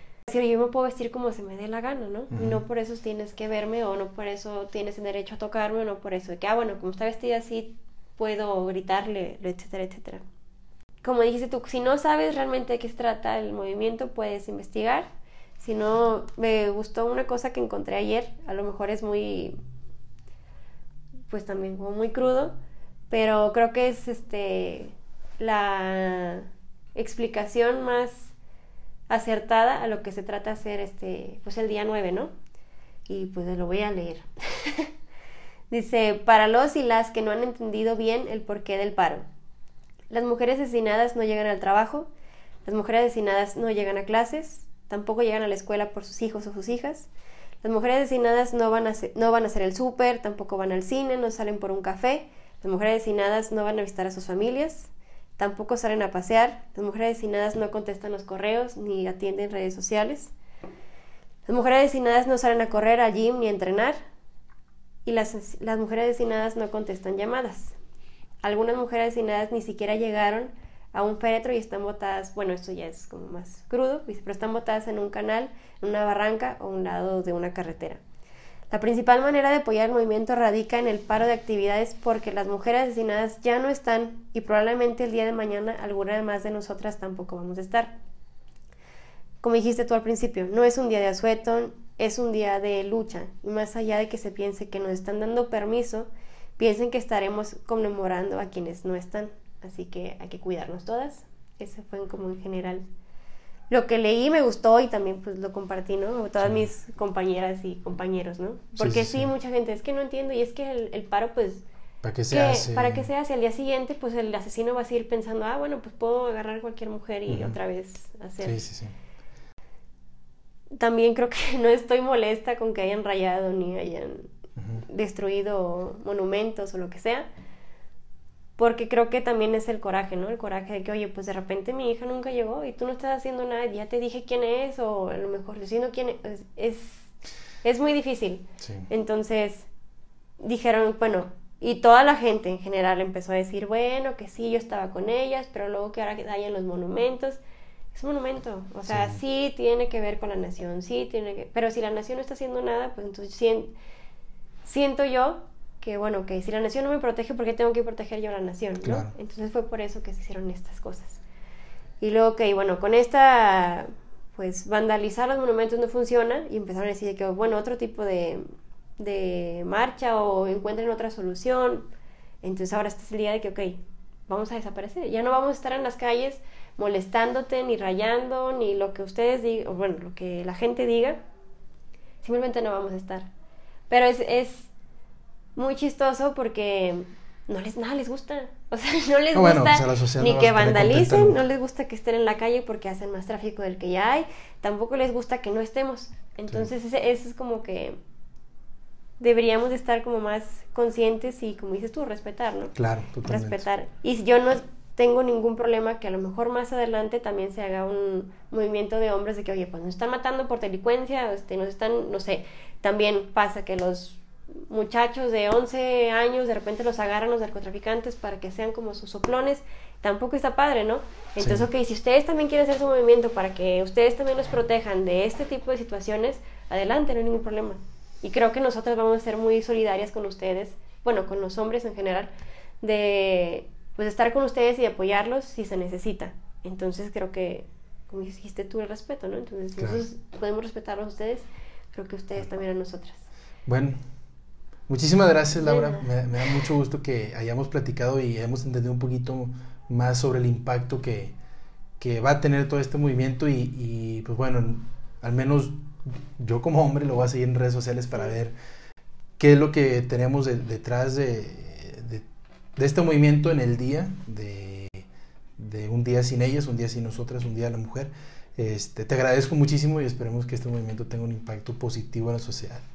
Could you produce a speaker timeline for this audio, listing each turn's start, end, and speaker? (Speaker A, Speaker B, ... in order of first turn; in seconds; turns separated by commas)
Speaker A: 0.3-10.2, Speaker B: 2.3-2.6, Speaker A: 11.0-15.1, Speaker A: 15.6-19.5, Speaker A: 21.3-22.6, Speaker A: 23.1-28.3, Speaker A: 29.1-32.3, Speaker A: 33.1-34.9, Speaker A: 35.7-39.2, Speaker A: 40.1-42.1, Speaker A: 42.6-47.1, Speaker A: 47.6-60.3, Speaker A: 61.5-64.0, Speaker A: 65.0-67.7, Speaker A: 68.4-78.0, Speaker A: 78.7-87.9, Speaker A: 89.4-102.8, Speaker A: 103.7-111.6, Speaker B: 106.4-106.7, Speaker B: 108.8-109.3, Speaker B: 112.0-113.1, Speaker A: 112.3-118.6, Speaker B: 117.3-117.6, Speaker B: 118.4-118.9, Speaker A: 120.8-124.3, Speaker B: 124.6-124.8, Speaker A: 124.8-127.3, Speaker A: 128.6-137.1, Speaker A: 137.6-139.7, Speaker B: 138.6-138.9, Speaker A: 140.4-147.4, Speaker A: 147.9-153.7, Speaker B: 148.9-149.2, Speaker A: 154.6-161.2, Speaker B: 158.8-159.1, Speaker A: 162.0-168.4, Speaker A: 169.0-171.9, Speaker A: 172.4-181.2, Speaker A: 182.2-183.3, Speaker A: 183.9-184.7, Speaker A: 185.6-197.9, Speaker B: 189.3-191.4, Speaker A: 199.2-202.7, Speaker B: 202.7-203.6, Speaker A: 203.3-243.2, Speaker B: 221.4-221.7, Speaker B: 239.8-240.0, Speaker B: 243.7-244.0, Speaker B: 244.9-251.3, Speaker A: 245.6-246.7, Speaker B: 252.0-258.5, Speaker B: 259.4-262.2, Speaker B: 262.8-272.8